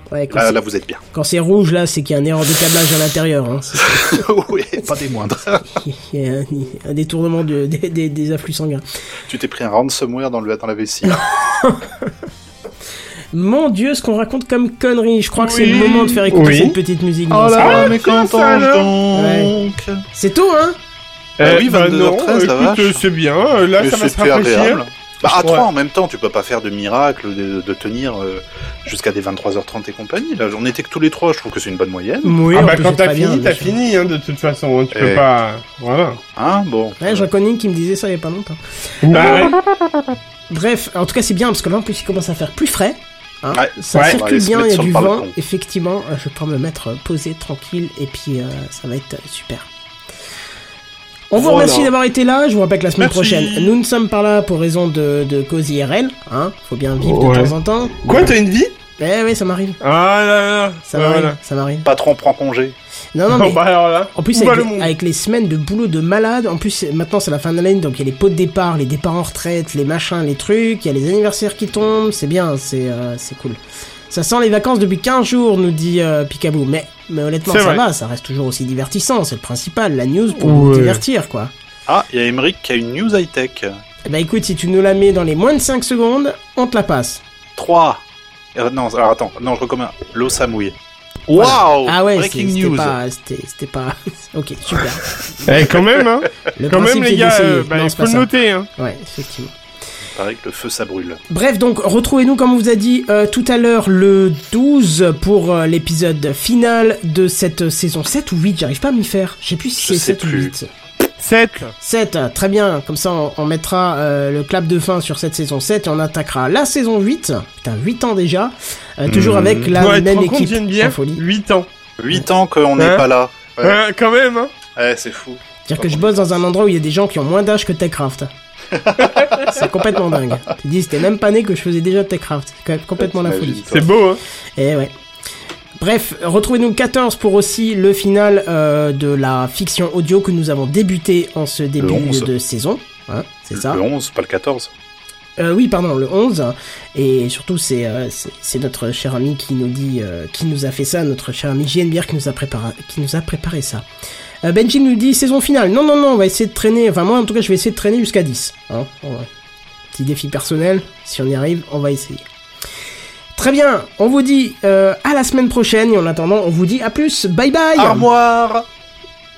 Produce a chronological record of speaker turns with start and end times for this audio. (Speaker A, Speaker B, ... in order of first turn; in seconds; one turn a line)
Speaker A: 0.1-0.6
Speaker B: 0.3-1.0
Speaker A: 1.1-4.2
Speaker B: 3.8-5.7
Speaker A: 5.7-8.8
Speaker B: 9.3-11.2
Speaker A: 11.1-12.2
Speaker A: 13.3-17.9
Speaker C: 15.4-16.8
Speaker B: 17.3-20.0
Speaker C: 17.6-18.9
Speaker A: 19.1-19.5
Speaker A: 20.1-20.8
Speaker C: 21.4-25.7
Speaker B: 21.4-23.0
Speaker B: 23.8-32.5
Speaker A: 32.2-33.8
Speaker C: 32.5-36.2
Speaker B: 34.9-35.2
Speaker B: 36.4-37.3
Speaker A: 37.0-39.5
Speaker C: 39.0-39.6
Speaker B: 39.1-39.5
Speaker A: 40.5-49.7
Speaker B: 43.5-45.3
Speaker A: 51.3-58.4
Speaker C: 51.4-51.9
Speaker C: 53.0-53.8
Speaker C: 57.0-57.5
Speaker C: 58.0-58.7
Speaker A: 59.0-59.8
Speaker C: 59.8-61.4
Speaker A: 60.9-61.9
Speaker B: 61.9-62.8
Speaker A: 63.1-63.6
Speaker C: 63.3-64.9
Speaker A: 64.2-73.6
Speaker A: 74.1-81.5
Speaker C: 77.5-77.8
Speaker C: 80.4-81.0
Speaker B: 81.9-83.8
Speaker A: 84.1-87.2
Speaker B: 87.6-88.0
Speaker B: 88.5-90.8
Speaker B: 91.3-93.0
Speaker A: 91.3-95.1
Speaker C: 95.5-98.7
Speaker B: 95.7-96.0
Speaker A: 96.6-99.5
Speaker B: 100.1-101.2
Speaker A: 101.3-110.7
Speaker B: 109.8-110.5
Speaker C: 111.2-111.8
Speaker A: 111.8-121.2
Speaker B: 119.1-119.8
Speaker C: 119.8-121.7
Speaker B: 122.0-123.8
Speaker C: 122.8-123.1
Speaker C: 123.6-124.5
Speaker B: 124.8-126.4
Speaker A: 125.7-128.3
Speaker B: 128.7-129.7
Speaker C: 129.1-129.4
Speaker A: 129.4-133.7
Speaker B: 133.0-133.9
Speaker C: 133.7-134.2
Speaker A: 134.6-134.9
Speaker A: 135.8-143.8
Speaker B: 141.8-142.3
Speaker B: 143.5-144.7
Speaker A: 145.4-153.8
Speaker A: 154.4-159.3
Speaker A: 159.9-162.2
Speaker A: 163.4-168.1
Speaker B: 167.8-168.7